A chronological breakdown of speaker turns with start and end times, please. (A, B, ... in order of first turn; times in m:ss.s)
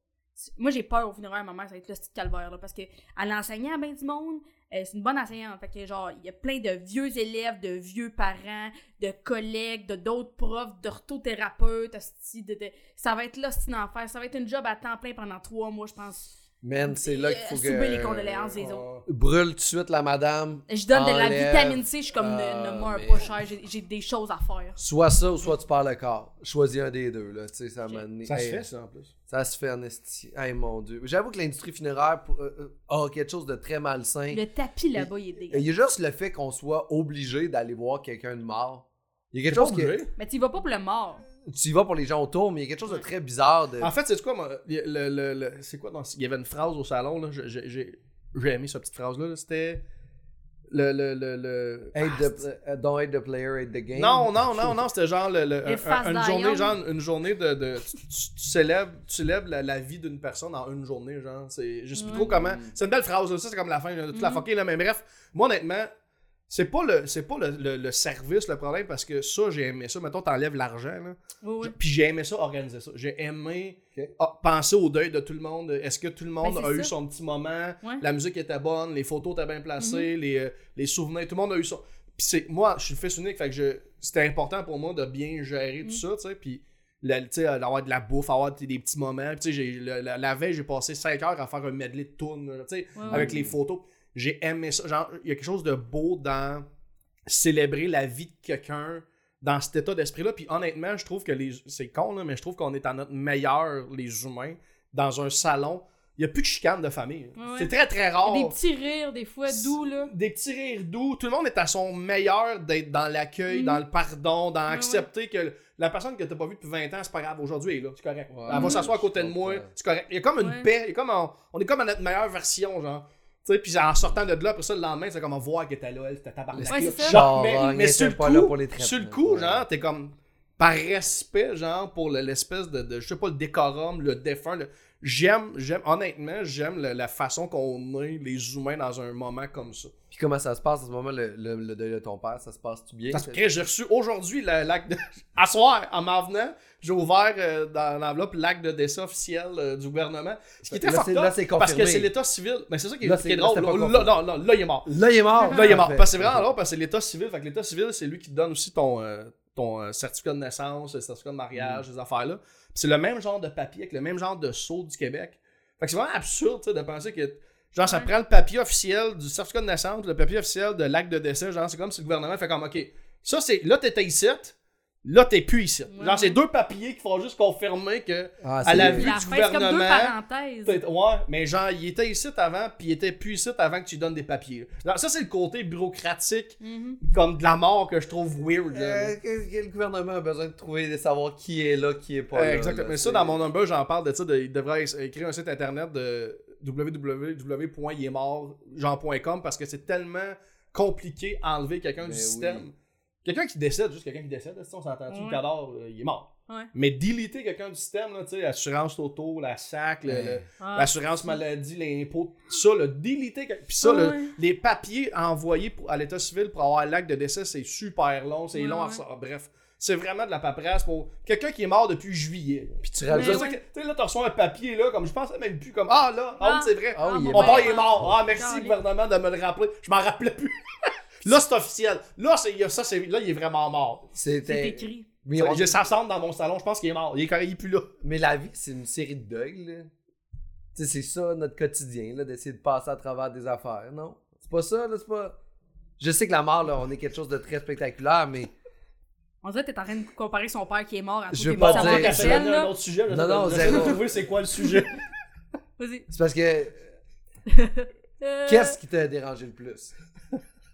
0:00.4-0:18.8 A
0:16.6-0:18.6 B
0:18.6-0:19.1 C
0:19.1-0:23.4 B
0:20.7-0:24.8 A
0:24.8-0:28.7 B
0:28.2-0:29.1 C
0:29.3-0:34.4 B
0:34.3-0:35.6 A
0:35.0-0:40.0 B
0:39.5-0:40.1 C
0:40.2-0:41.2 A
0:41.4-0:43.9 B
0:43.8-0:49.8 C
0:50.7-0:52.4 C
0:51.9-0:54.8 B
0:54.0-1:05.9 C
0:55.7-0:56.8 A
1:02.0-1:02.6 A
1:02.4-1:02.7 B
1:04.1-1:04.4 A
1:06.5-1:36.7 C
1:11.4-1:11.7 A
1:16.4-1:16.9 A
1:19.8-1:20.1 A
1:33.0-1:33.3 A
1:33.1-1:33.5 B
1:37.3-1:48.6 C
1:47.4-1:47.7 A
1:48.2-1:50.1 A
1:49.5-2:19.9 C
1:53.5-1:53.8 A
1:54.7-1:55.1 A
1:58.3-1:59.7 B
1:58.5-1:58.9 A
2:00.4-2:00.7 A
2:06.5-2:09.6 B
2:06.6-2:07.2 A
2:20.1-2:23.4 B
2:23.1-2:34.9 C
2:30.7-2:32.1 B
2:33.0-2:34.1 B
2:34.9-2:36.5 B
2:35.4-2:35.7 A
2:35.5-3:09.2 C
2:41.6-2:41.8 B
2:47.8-2:48.1 A
2:55.9-2:56.4 A
2:58.4-2:59.1 B
2:58.7-3:00.8 A
3:06.6-3:07.0 A
3:08.7-3:13.5 B
3:12.3-3:50.6 C
3:22.0-3:22.6 B
3:25.1-3:25.4 A
3:30.1-3:30.4 B
3:30.6-3:31.4 A
3:33.8-3:34.4 A
3:38.5-3:39.0 A
3:42.8-3:43.5 B
3:43.1-3:43.6 A
3:46.4-3:48.8 A
3:47.0-3:47.9 B
3:51.2-3:54.1 C
3:54.1-3:55.9 B
3:54.4-3:55.1 A
3:55.4-3:57.9 C
3:58.0-3:59.9 B
4:00.7-4:05.4 B
4:06.0-4:08.5 B
4:09.4-4:12.7 A
4:11.3-4:12.4 B
4:11.6-4:15.0 C
4:13.1-4:14.0 B
4:15.8-4:16.1 A
4:16.1-4:16.8 B
4:17.5-4:18.8 A
4:18.5-4:19.9 B